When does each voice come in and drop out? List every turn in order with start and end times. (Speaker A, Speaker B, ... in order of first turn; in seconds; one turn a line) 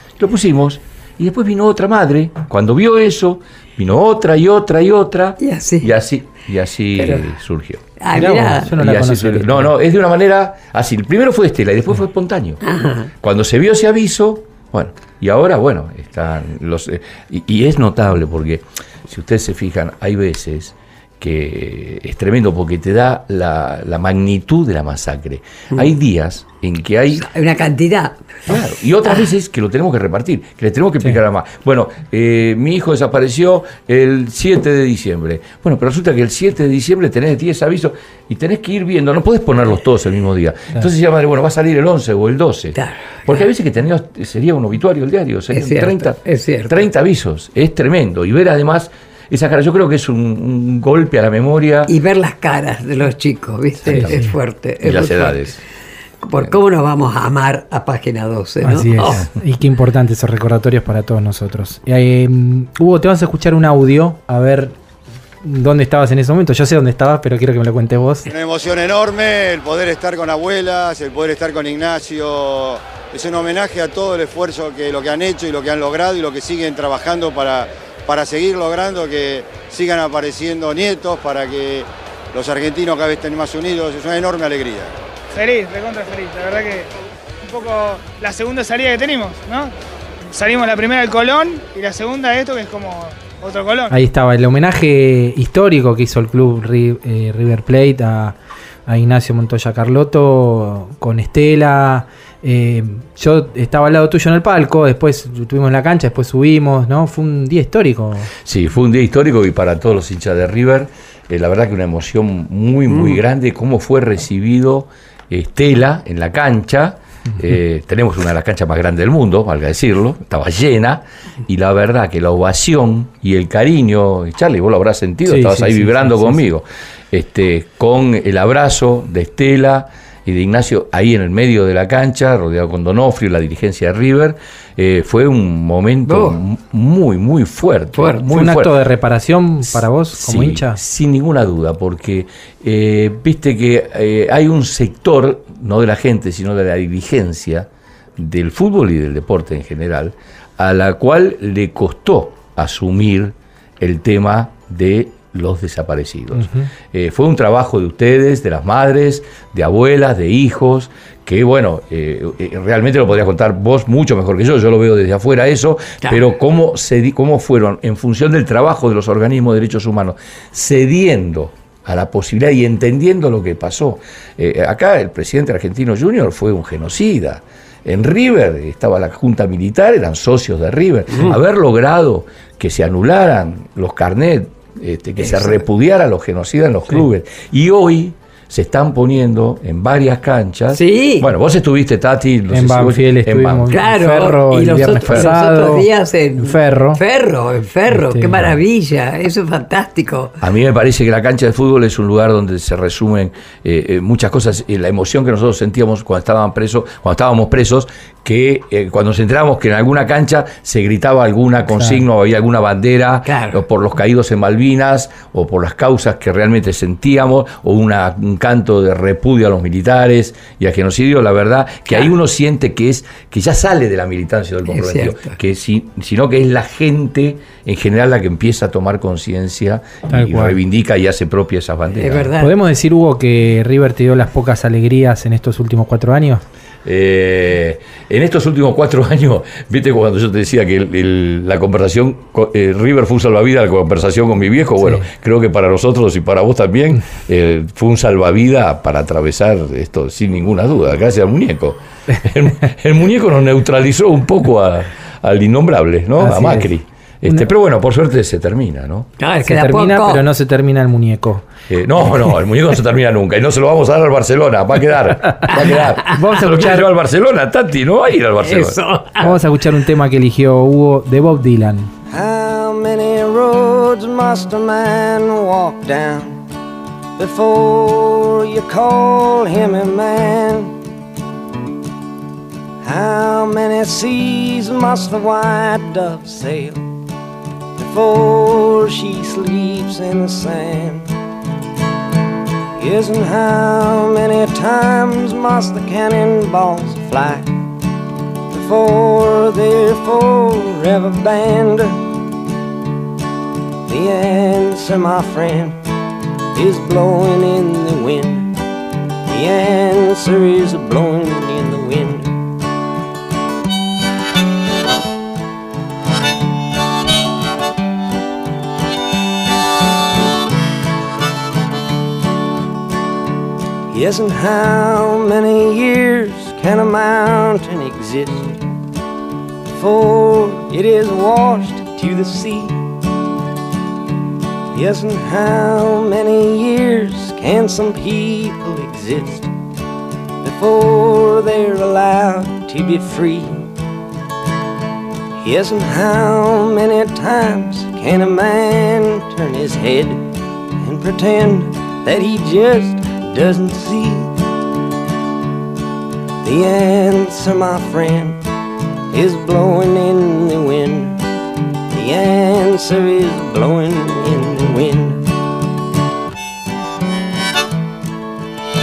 Speaker A: 0.2-7.8
Speaker B: 5.4-5.9
Speaker B: 7.0-7.2
Speaker B: 8.0-8.7
Speaker C: 8.1-9.7
Speaker A: 8.6-12.6
Speaker B: 12.6-13.1
Speaker A: 13.2-27.3
Speaker B: 27.2-28.3
Speaker A: 28.4-51.9
Speaker B: 42.8-43.5
Speaker B: 45.5-46.9
Speaker B: 51.9-55.5
Speaker A: 53.8-54.2
Speaker C: 53.9-54.3
Speaker A: 54.8-55.6
Speaker B: 56.2-59.3
Speaker C: 58.6-64.7
Speaker C: 65.4-68.3
Speaker D: 68.3-84.9
Speaker E: 85.3-86.9
Speaker E: 87.4-89.7
Speaker E: 90.3-93.9
Speaker C: 93.9-98.4
Speaker C: 98.9-108.3
Speaker A: 108.4-138.8
Speaker C: 125.3-126.4
Speaker B: 136.1-136.4
Speaker B: 137.9-138.3
Speaker C: 138.3-140.8
Speaker A: 139.7-193.8
Speaker C: 156.4-156.7
Speaker B: 185.2-185.6
Speaker B: 190.7-191.3
Speaker C: 192.5-197.0
Speaker B: 193.7-200.4
Speaker A: 194.7-195.3
Speaker C: 197.9-198.5
Speaker A: 200.4-232.3
Speaker C: 211.8-212.0
Speaker B: 213.3-213.6
Speaker B: 224.7-225.3
Speaker C: 230.1-230.6
Speaker B: 231.9-232.5
Speaker C: 232.4-236.4
Speaker A: 236.8-259.1
Speaker C: 256.2-256.7
Speaker B: 259.2-260.3
Speaker C: 259.4-261.4
Speaker A: 261.7-268.8
Speaker C: 266.1-266.9
Speaker B: 268.4-269.4
Speaker C: 269.2-271.9
Speaker F: 272.1-276.4
Speaker F: 277.2-280.7
Speaker F: 282.8-286.9
Speaker F: 287.8-291.1
Speaker F: 292.8-297.6
Speaker F: 298.5-302.1
Speaker F: 303.9-305.8
Speaker F: 306.5-308.5
Speaker F: 309.3-312.4
Speaker F: 323.9-328.6
Speaker F: 329.7-332.8
Speaker F: 334.7-339.5
Speaker F: 340.4-343.6
Speaker F: 345.4-354.3
Speaker F: 356.4-358.4
Speaker F: 359.1-361.2
Speaker F: 361.9-365.3